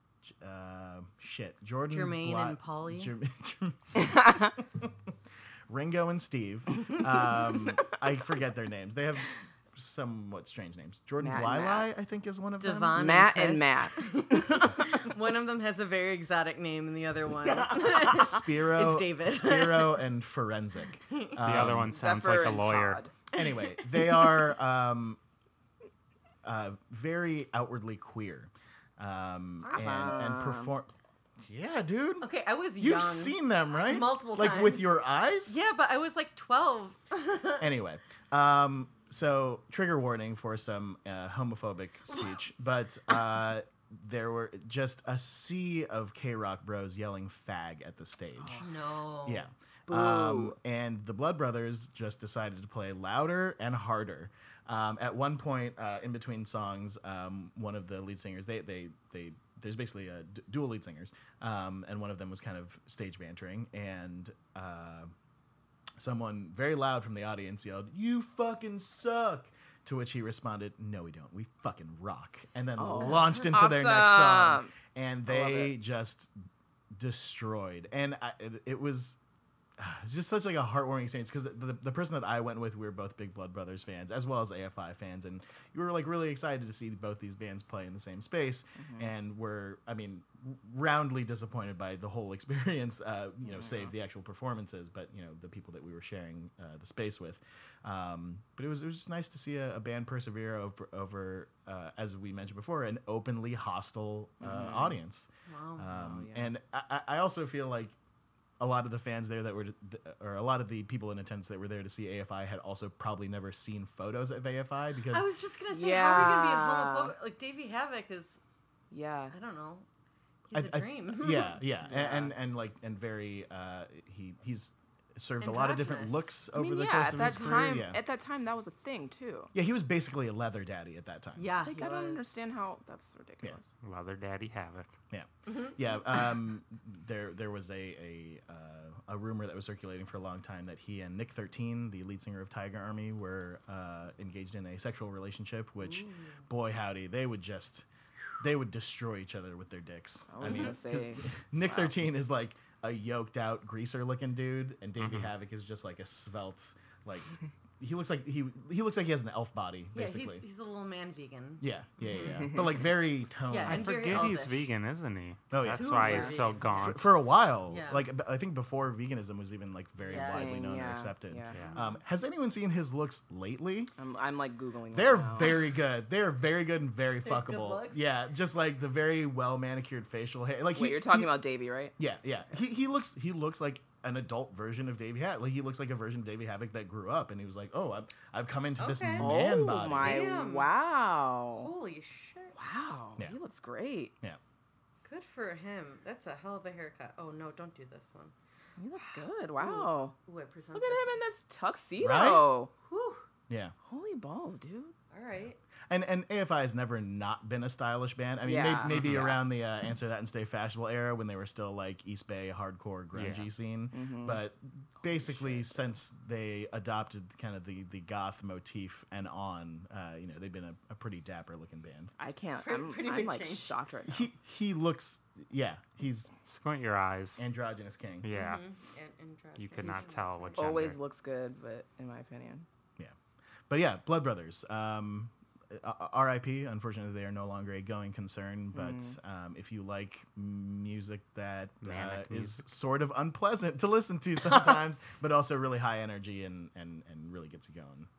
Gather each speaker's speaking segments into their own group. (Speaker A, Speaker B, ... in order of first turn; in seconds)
Speaker A: 0.2-4.9, 5.7-13.2, 17.8-22.0, 23.3-25.2, 26.4-30.9, 31.4-32.3, 32.8-35.6, 37.6-48.6, 49.3-65.1, 66.0-79.2, 79.8-107.9, 108.6-115.3, 120.5-128.0, 129.5-131.6, 135.1-147.9, 148.4-160.4, 161.6-164.4, 165.5-173.9, 174.9-181.4, 182.0-190.3, 202.0-202.6, 203.5-203.8, 205.9-222.1, 224.1-226.3, 227.4-228.3, 233.7-248.1
Speaker B: 1.9-3.1, 12.6-20.1, 21.1-21.4, 32.2-34.9, 35.5-37.7, 48.5-49.5, 105.5-106.0, 115.1-118.4, 119.3-119.9, 120.5-121.6, 125.4-126.3, 131.4-132.3, 135.5-135.7, 145.8-146.4, 150.5-150.7, 159.9-162.7, 163.5-164.6, 165.6-167.1, 167.7-168.1, 170.0-170.7, 171.7-172.0, 177.2-178.0, 188.8-190.7, 191.6-192.6, 195.0-198.3, 199.6-201.2, 202.9-203.2, 205.1-205.6, 222.6-223.7, 228.3-230.9
Speaker C: 4.2-4.4, 11.2-11.9, 12.9-15.1, 21.9-23.1, 29.6-30.8, 48.4-48.7, 49.9-50.6, 72.8-74.7, 75.3-75.7, 88.8-89.1, 93.5-93.9, 104.4-105.0, 106.0-106.5, 115.7-117.2, 118.9-119.3, 121.8-122.3, 126.5-129.5, 131.6-133.7, 150.3-152.0, 170.1-171.7, 174.0-175.6, 180.8-181.9, 189.2-191.7, 192.6-194.1, 198.8-200.2, 200.7-202.7, 203.8-204.9, 208.4-209.4, 213.9-214.4, 215.1-215.7, 222.2-224.3, 230.6-232.7, 238.8-239.2
Speaker D: 21.4-23.0, 133.8-134.9, 155.0-155.3, 163.7-167.1, 171.5-171.8, 208.8-209.4, 213.1-213.5, 226.5-227.4, 228.2-228.6, 229.6-231.0, 241.8-242.7